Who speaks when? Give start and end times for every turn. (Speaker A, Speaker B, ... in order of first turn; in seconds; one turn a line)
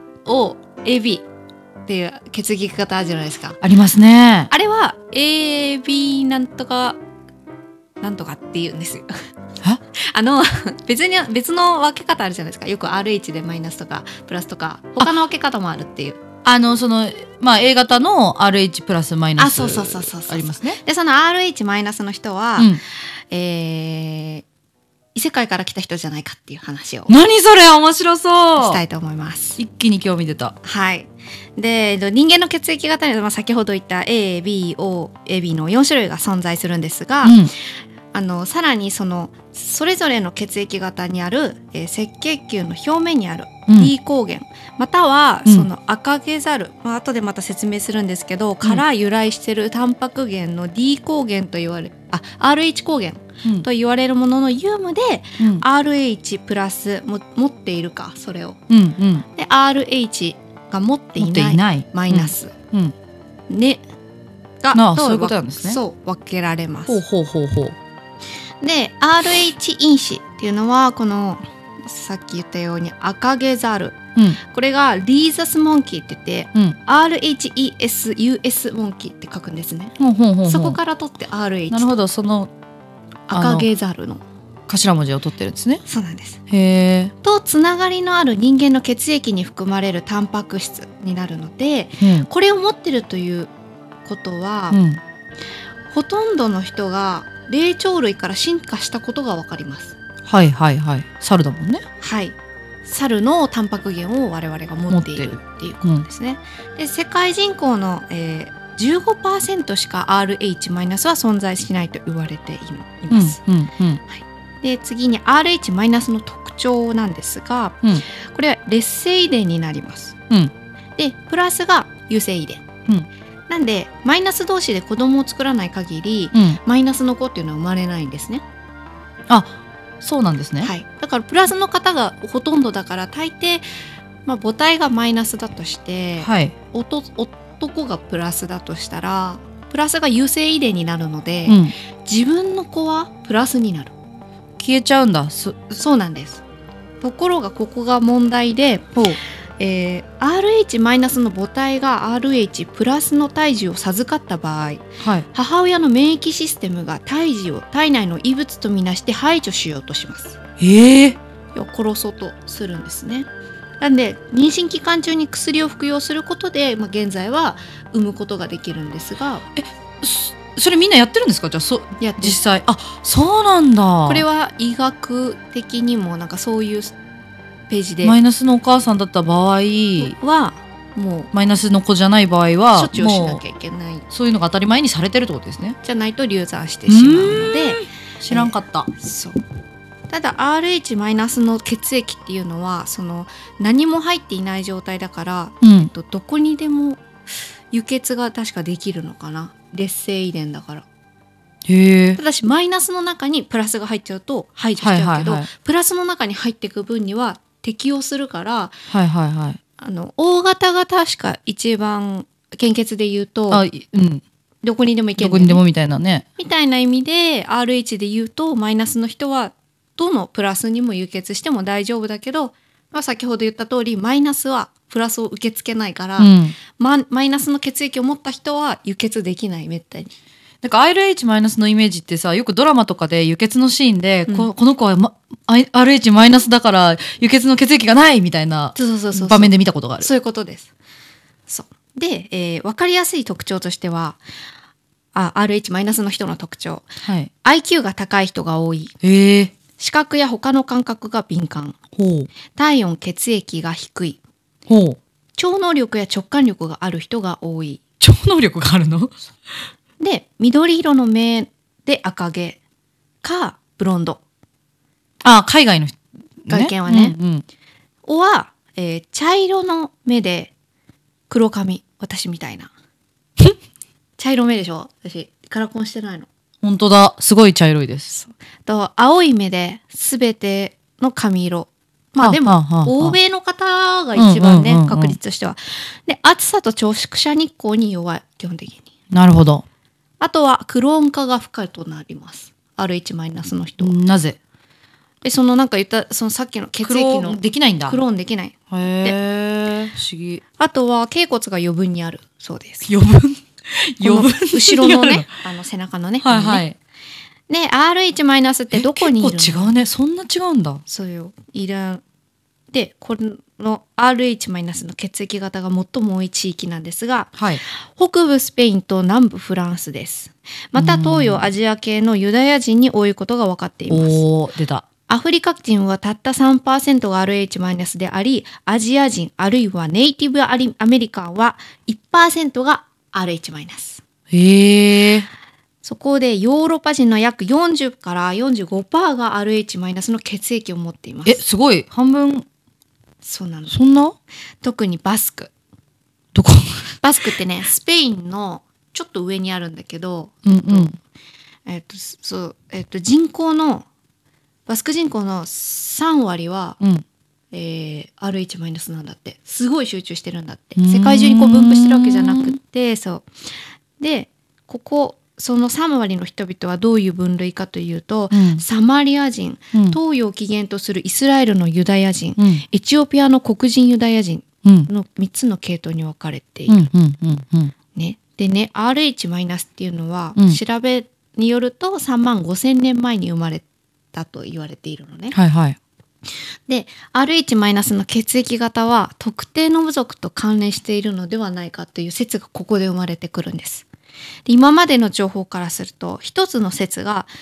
Speaker A: 0.2-1.2
Speaker A: 1.9-3.6
Speaker B: 3.6-4.5
Speaker A: 4.5-7.0
Speaker A: 8.0-9.1
Speaker A: 9.9-16.2
Speaker B: 16.4-20.8
Speaker A: 19.4-22.8
Speaker A: 23.3-24.4
Speaker A: 25.1-27.1
Speaker B: 27.1-28.8
Speaker A: 28.6-29.6
Speaker B: 29.6-30.6
Speaker A: 30.6-37.5
Speaker B: 37.2-37.5
Speaker A: 38.1-58.6
Speaker B: 55.4-55.6
Speaker B: 58.7-59.3
Speaker A: 59.4-62.5
Speaker B: 61.2-63.0
Speaker A: 63.5-63.8
Speaker A: 64.6-67.0
Speaker B: 64.7-65.8
Speaker B: 66.9-67.8
Speaker A: 68.6-81.9
Speaker B: 80.0-80.8
Speaker B: 81.7-82.5
Speaker A: 83.3-84.2
Speaker B: 83.3-83.7
Speaker B: 84.7-85.8
Speaker A: 85.9-86.4
Speaker B: 86.5-87.1
Speaker A: 87.2-93.5
Speaker B: 92.0-92.3
Speaker A: 94.0-94.8
Speaker B: 94.7-95.0
Speaker A: 95.9-100.0
Speaker B: 100.3-101.8
Speaker A: 102.0-113.4
Speaker B: 104.9-106.1
Speaker B: 113.1-114.0
Speaker A: 114.1-120.2
Speaker A: 121.0-122.7
Speaker A: 123.5-128.4
Speaker B: 126.3-126.6
Speaker B: 129.3-130.7
Speaker A: 130.6-133.6
Speaker A: 134.3-143.9
Speaker B: 136.2-136.6
Speaker B: 141.5-141.7
Speaker B: 144.6-145.8
Speaker A: 145.8-146.4
Speaker A: 147.0-149.0
Speaker A: 149.6-160.4
Speaker B: 155.0-155.3
Speaker B: 160.6-161.2
Speaker A: 161.6-163.3
Speaker A: 163.8-169.4
Speaker B: 169.6-174.2
Speaker A: 172.0-172.4
Speaker A: 174.1-177.0
Speaker A: 177.7-178.2
Speaker B: 178.0-180.2
Speaker A: 180.0-181.3
Speaker B: 181.3-183.4
Speaker A: 182.7-184.1
Speaker B: 184.1-185.8
Speaker A: 185.8-189.4
Speaker B: 186.9-188.9
Speaker A: 190.1-197.0
Speaker B: 195.6-195.9
Speaker A: 197.7-200.8
Speaker B: 201.7-202.2
Speaker A: 202.2-208.8
Speaker B: 204.8-205.5
Speaker B: 208.9-209.6
Speaker A: 209.8-213.6
Speaker B: 213.5-214.2
Speaker A: 214.6-215.6
Speaker B: 215.2-216.2
Speaker A: 216.4-230.1
Speaker B: 226.2-226.6
Speaker B: 230.6-240.1
Speaker A: 238.8-240.7
Speaker A: 241.5-244.2
Speaker A: 245.2-246.9
Speaker B: 247.0-247.3
Speaker A: 247.4-248.9
Speaker B: 249.0-249.5
Speaker A: 249.8-251.8
Speaker B: 252.0-252.3
Speaker A: 252.6-254.2
Speaker B: 254.7-255.0
Speaker A: 255.4-257.8
Speaker B: 258.0-259.1
Speaker A: 260.0-262.6
Speaker A: 263.2-264.2
Speaker B: 265.2-267.4
Speaker A: 266.5-267.2
Speaker A: 268.1-270.5
Speaker A: 271.3-272.7
Speaker A: 274.2-276.3
Speaker B: 276.6-278.1
Speaker A: 278.1-288.9
Speaker B: 282.2-283.2
Speaker B: 284.1-285.2
Speaker B: 289.1-289.6
Speaker A: 290.2-294.0
Speaker B: 293.8-294.4
Speaker A: 295.2-299.2
Speaker B: 296.8-298.0
Speaker B: 298.7-300.4
Speaker A: 300.6-302.9
Speaker B: 302.9-305.3
Speaker A: 304.0-306.6
Speaker B: 306.2-306.8
Speaker A: 307.5-309.7
Speaker B: 308.7-310.8
Speaker A: 310.9-312.0
Speaker A: 312.7-324.2
Speaker B: 317.4-317.6
Speaker B: 320.8-321.5
Speaker B: 323.9-324.9
Speaker A: 325.1-334.0
Speaker B: 334.3-335.3
Speaker A: 335.8-341.4
Speaker B: 341.2-342.5
Speaker A: 343.2-343.8
Speaker B: 343.7-344.2
Speaker A: 344.6-345.5
Speaker B: 346.4-346.9
Speaker A: 347.0-350.9
Speaker B: 350.4-351.0
Speaker A: 351.7-353.9
Speaker A: 354.7-356.8
Speaker A: 357.5-363.3
Speaker B: 360.8-362.6
Speaker A: 364.0-376.9
Speaker B: 368.3-368.6
Speaker B: 369.7-370.0
Speaker B: 372.4-372.6
Speaker B: 374.6-374.9
Speaker B: 376.7-377.7
Speaker A: 377.9-385.4
Speaker B: 385.3-385.8
Speaker A: 386.7-393.9
Speaker A: 394.5-397.3